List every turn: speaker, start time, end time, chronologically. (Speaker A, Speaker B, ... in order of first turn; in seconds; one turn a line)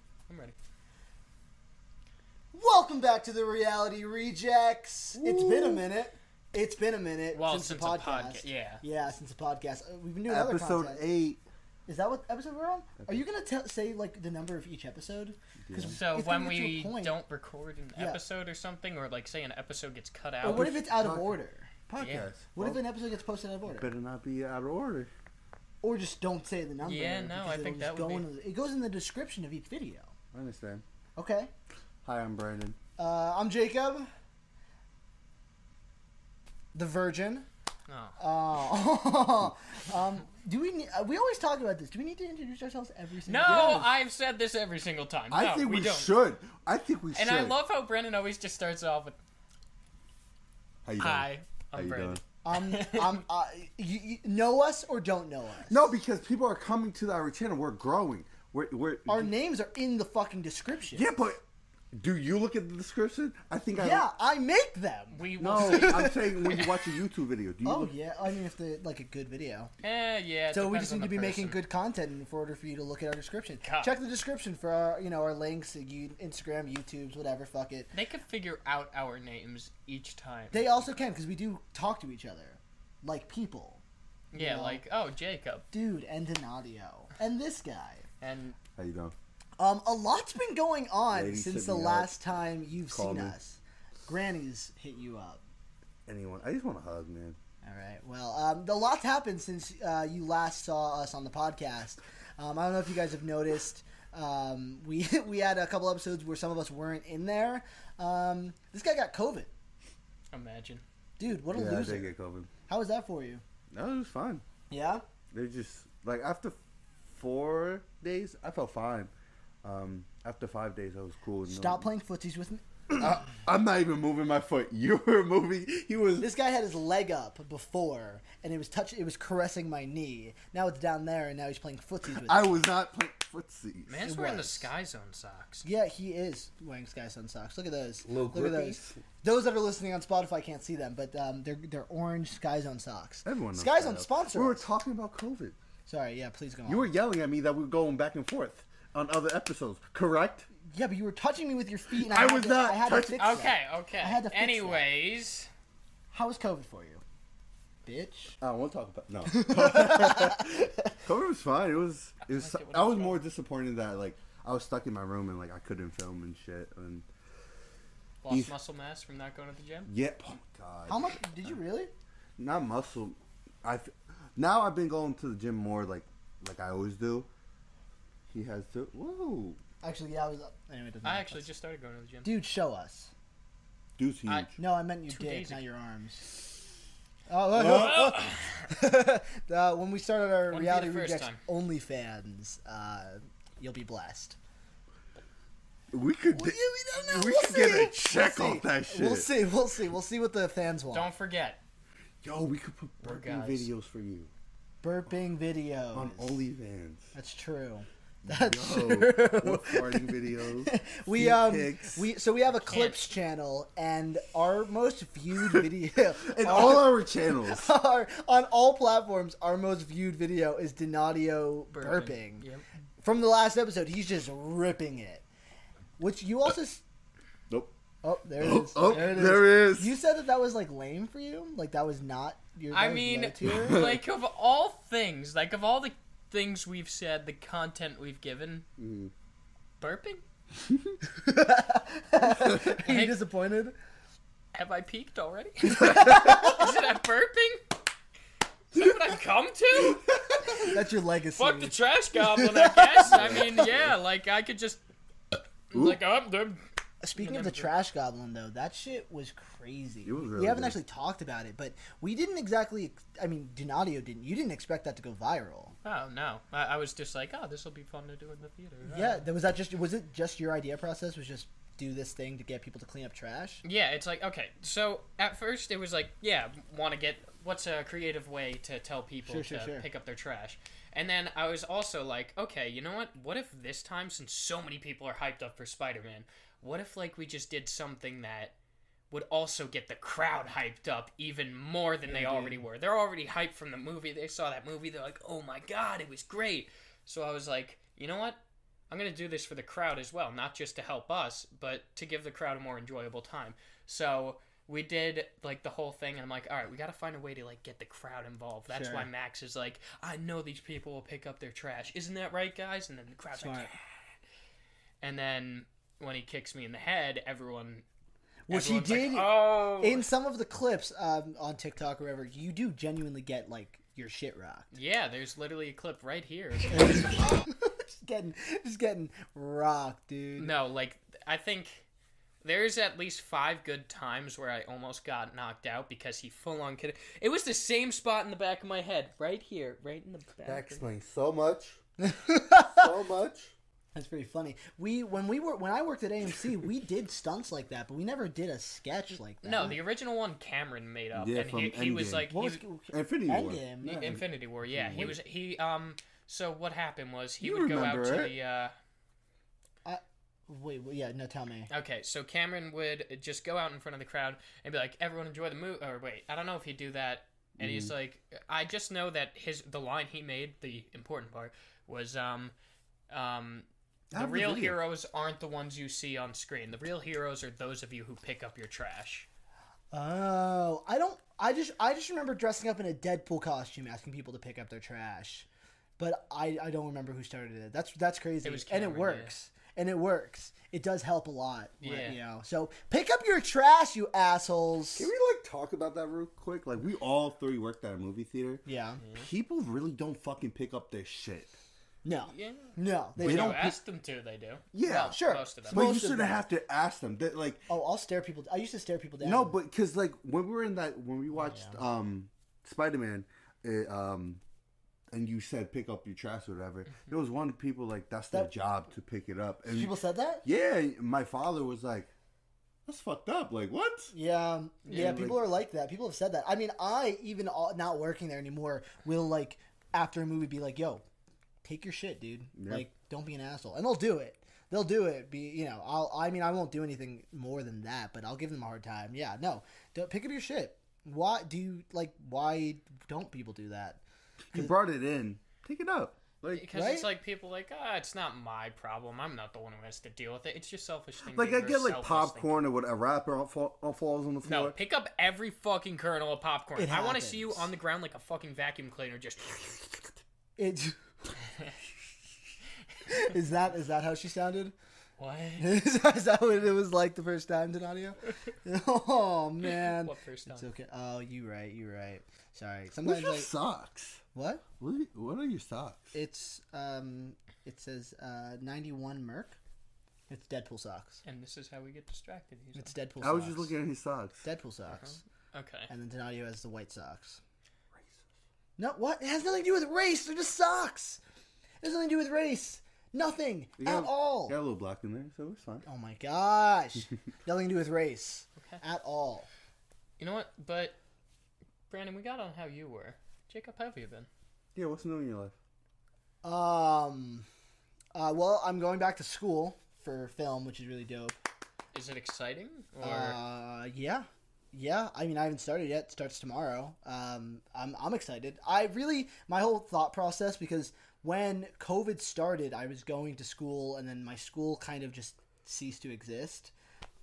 Speaker A: 0.3-0.6
Speaker B: 2.5-11.0
Speaker C: 5.1-5.9
Speaker A: 7.3-8.8
Speaker C: 10.3-11.4
Speaker B: 11.9-17.2
Speaker C: 15.6-16.0
Speaker A: 15.8-20.8
Speaker B: 17.9-18.2
Speaker B: 20.4-21.7
Speaker C: 20.4-21.3
Speaker C: 21.9-22.8
Speaker A: 22.0-22.3
Speaker B: 22.6-23.9
Speaker C: 23.7-25.1
Speaker B: 25.8-30.1
Speaker A: 26.8-28.3
Speaker C: 30.3-30.8
Speaker B: 31.1-31.5
Speaker C: 32.0-32.8
Speaker B: 33.0-34.1
Speaker B: 36.7-37.5
Speaker A: 37.9-38.2
Speaker B: 38.2-43.9
Speaker A: 43.2-46.1
Speaker C: 43.4-43.9
Speaker C: 45.3-47.6
Speaker A: 47.1-49.2
Speaker C: 50.8-52.2
Speaker A: 51.0-53.2
Speaker B: 52.4-55.9
Speaker C: 55.7-59.3
Speaker B: 59.1-61.0
Speaker C: 60.9-61.4
Speaker C: 61.9-64.0
Speaker B: 63.8-66.7
Speaker A: 65.1-66.8
Speaker C: 65.4-67.9
Speaker B: 67.6-69.7
Speaker A: 69.8-71.6
Speaker B: 70.5-77.9
Speaker A: 73.6-73.9
Speaker A: 77.9-80.8
Speaker B: 80.5-83.8
Speaker A: 84.3-85.7
Speaker B: 84.3-84.8
Speaker B: 85.7-88.0
Speaker A: 88.2-88.6
Speaker C: 88.8-89.1
Speaker B: 89.6-95.4
Speaker C: 91.1-92.1
Speaker C: 92.9-93.3
Speaker C: 96.0-97.4
Speaker B: 97.6-109.5
Speaker A: 110.3-110.8
Speaker B: 111.2-112.1
Speaker C: 111.5-112.5
Speaker B: 112.7-113.4
Speaker C: 113.7-114.4
Speaker B: 114.7-115.0
Speaker C: 115.3-119.1
Speaker C: 119.6-121.9
Speaker B: 121.5-123.2
Speaker C: 122.9-126.3
Speaker B: 126.2-132.6
Speaker C: 132.1-134.0
Speaker A: 133.9-135.7
Speaker B: 134.0-134.7
Speaker B: 135.6-144.6
Speaker C: 138.0-139.0
Speaker C: 143.2-145.6
Speaker B: 145.9-146.9
Speaker C: 146.7-150.5
Speaker B: 150.7-154.9
Speaker C: 151.9-153.4
Speaker A: 153.2-155.5
Speaker B: 156.1-157.0
Speaker B: 157.8-158.4
Speaker C: 158.4-167.1
Speaker B: 159.3-160.9
Speaker A: 162.2-163.2
Speaker A: 168.2-169.9
Speaker C: 169.9-171.5
Speaker B: 170.9-171.9
Speaker C: 172.4-177.3
Speaker C: 178.3-179.6
Speaker B: 179.8-181.5
Speaker A: 181.0-182.3
Speaker B: 182.2-183.1
Speaker C: 184.0-184.5
Speaker A: 184.3-184.5
Speaker B: 184.6-186.3
Speaker A: 185.1-185.6
Speaker B: 187.3-194.3
Speaker A: 187.6-188.7
Speaker C: 187.6-187.9
Speaker A: 190.5-191.4
Speaker C: 195.9-199.3
Speaker B: 196.3-201.1
Speaker A: 200.9-201.6
Speaker C: 202.2-204.3
Speaker A: 203.0-203.7
Speaker B: 204.8-206.4
Speaker C: 205.9-207.1
Speaker B: 207.1-222.4
Speaker C: 208.2-212.1
Speaker A: 212.6-213.0
Speaker C: 216.2-217.7
Speaker A: 221.7-222.6
Speaker B: 223.0-225.2
Speaker B: 226.0-226.8
Speaker C: 227.5-227.7
Speaker B: 228.0-233.9
Speaker C: 228.4-229.9
Speaker A: 232.7-238.7
Speaker C: 233.4-234.0
Speaker C: 238.8-239.1
Speaker A: 239.8-240.2
Speaker B: 241.1-243.7
Speaker A: 242.5-243.2
Speaker A: 244.5-247.6
Speaker B: 245.8-246.7
Speaker A: 248.7-250.7
Speaker B: 250.6-253.6
Speaker A: 251.3-254.8
Speaker C: 253.0-253.9
Speaker A: 255.7-256.6
Speaker C: 255.7-256.0
Speaker B: 257.0-265.7
Speaker A: 257.2-257.7
Speaker C: 260.0-260.8
Speaker A: 265.8-269.2
Speaker B: 268.9-273.6
Speaker A: 273.6-288.5
Speaker B: 279.2-279.9
Speaker A: 289.1-298.4
Speaker B: 292.0-292.6
Speaker A: 298.9-313.9
Speaker B: 308.7-309.1
Speaker B: 313.4-313.7
Speaker A: 315.0-317.8
Speaker B: 318.5-324.7
Speaker A: 318.5-320.1
Speaker A: 324.7-327.3
Speaker B: 326.7-330.5
Speaker A: 330.4-331.8
Speaker A: 332.4-340.8
Speaker C: 340.4-341.8
Speaker B: 342.0-342.9
Speaker C: 342.7-343.5
Speaker B: 343.9-349.8
Speaker A: 349.4-352.6
Speaker C: 351.1-355.2
Speaker B: 352.4-354.2
Speaker A: 353.8-358.7
Speaker C: 357.4-358.3
Speaker B: 359.8-361.7
Speaker A: 361.7-372.5
Speaker C: 367.6-367.9
Speaker A: 373.1-379.3
Speaker B: 374.1-374.8
Speaker B: 379.9-385.5
Speaker B: 386.0-395.1
Speaker A: 388.4-389.3
Speaker A: 391.8-392.2
Speaker C: 394.9-401.6
Speaker B: 398.6-399.0
Speaker A: 399.0-399.3
Speaker B: 402.0-403.8
Speaker A: 402.2-405.9
Speaker C: 403.2-403.7
Speaker C: 404.7-405.2
Speaker B: 405.1-406.4
Speaker C: 405.7-407.7
Speaker B: 407.7-409.6
Speaker C: 409.2-414.4
Speaker B: 411.3-411.8
Speaker C: 415.1-419.9
Speaker B: 419.7-420.4
Speaker C: 420.4-422.1
Speaker C: 422.9-424.1
Speaker B: 424.1-431.0
Speaker A: 424.9-425.1
Speaker C: 424.9-425.4
Speaker B: 431.6-444.0
Speaker C: 432.6-432.9
Speaker C: 444.5-446.6
Speaker A: 446.5-452.5
Speaker B: 446.7-447.1
Speaker C: 451.3-454.8
Speaker A: 454.4-460.1
Speaker B: 456.8-457.7
Speaker B: 460.6-461.0
Speaker B: 463.1-464.7
Speaker A: 465.2-465.8
Speaker B: 465.6-473.5
Speaker A: 469.6-470.7
Speaker C: 473.0-474.2
Speaker B: 474.3-474.6
Speaker C: 474.8-476.1
Speaker B: 476.1-479.6
Speaker B: 480.3-481.2
Speaker A: 481.2-482.9
Speaker B: 482.7-483.7
Speaker C: 483.2-484.4
Speaker B: 484.4-485.2
Speaker A: 485.0-485.9
Speaker B: 485.9-487.4
Speaker B: 488.8-491.2
Speaker B: 491.8-494.6
Speaker C: 493.8-495.9
Speaker B: 495.9-499.5
Speaker A: 500.2-501.0
Speaker A: 501.9-504.3
Speaker C: 504.7-505.5
Speaker B: 506.4-507.4
Speaker B: 508.1-511.3
Speaker A: 511.9-513.4
Speaker B: 513.0-526.7